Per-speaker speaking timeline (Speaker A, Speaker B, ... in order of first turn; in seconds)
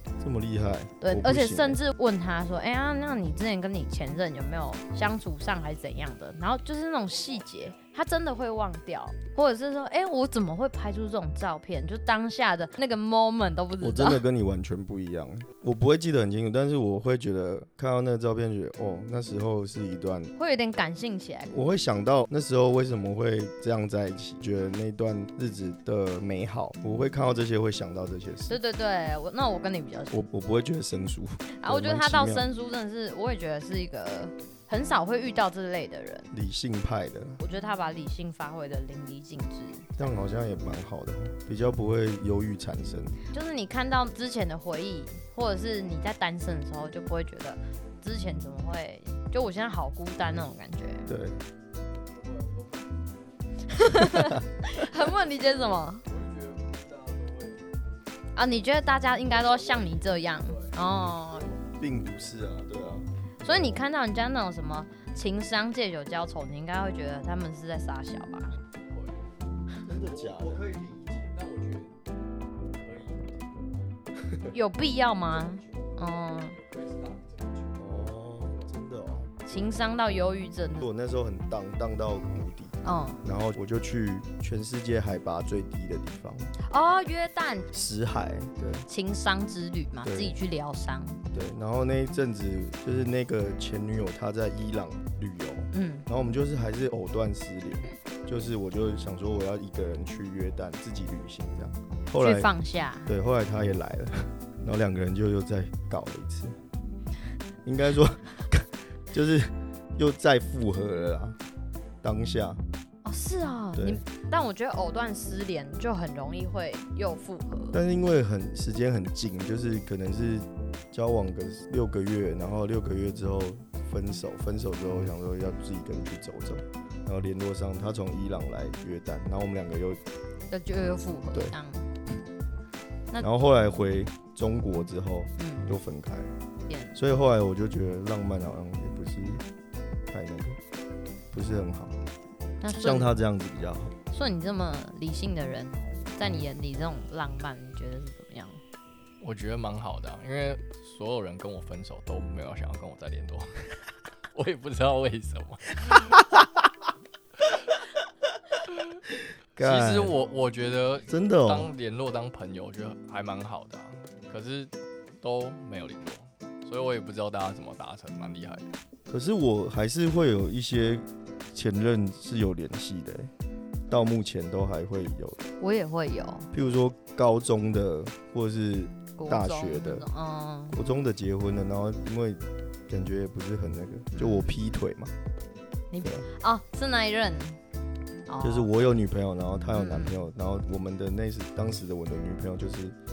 Speaker A: 0.2-1.8, 13.8-20.3, 21.5-28.6, 30.1-32.5, 36.3-37.4, 40.0-43.2, 51.1-51.4, 61.8-63.8, 69.8-70.7, 74.2-74.5, 77.8-79.7, 80.8-86.5, 87.7-88.9, 90.0-90.3, 91.3-102.5, 103.0-106.6, 107.6-111.4, 112.0-112.6, 113.7-114.0, 117.7-130.0, 133.2-136.3, 136.9-139.4, 140.1-140.6, 141.3-142.0, 142.7-143.9, 159.6-160.2, 161.1-161.7, 169.1-173.3, 173.9-175.4, 176.5-180.1, 180.7-185.1, 188.4-192.9
Speaker B: 1.0-14.2, 20.4-21.6, 28.5-30.2, 31.6-36.3, 37.4-40.0, 43.3-51.1, 53.7-56.1, 58.3-61.5, 63.4-68.6, 74.5-76.6, 79.4-80.9, 82.8-83.2, 86.6-87.7, 88.9-91.2, 95.7-96.1, 102.1-103.1, 113.0-117.8, 130.5-131.9, 135.4-135.7, 136.7-136.9, 142.6-143.1, 144.1-148.6, 175.6-176.5, 179.2-180.8, 184.1-184.6, 185.9-187.6, 188.3-188.7, 189.7-190.3
Speaker C: 52.2-53.0, 56.1-57.6, 60.5-60.7, 68.9-69.2, 70.0-71.9, 72.7-73.5, 76.6-77.8, 149.2-153.7, 154.3-156.1, 159.6-168.7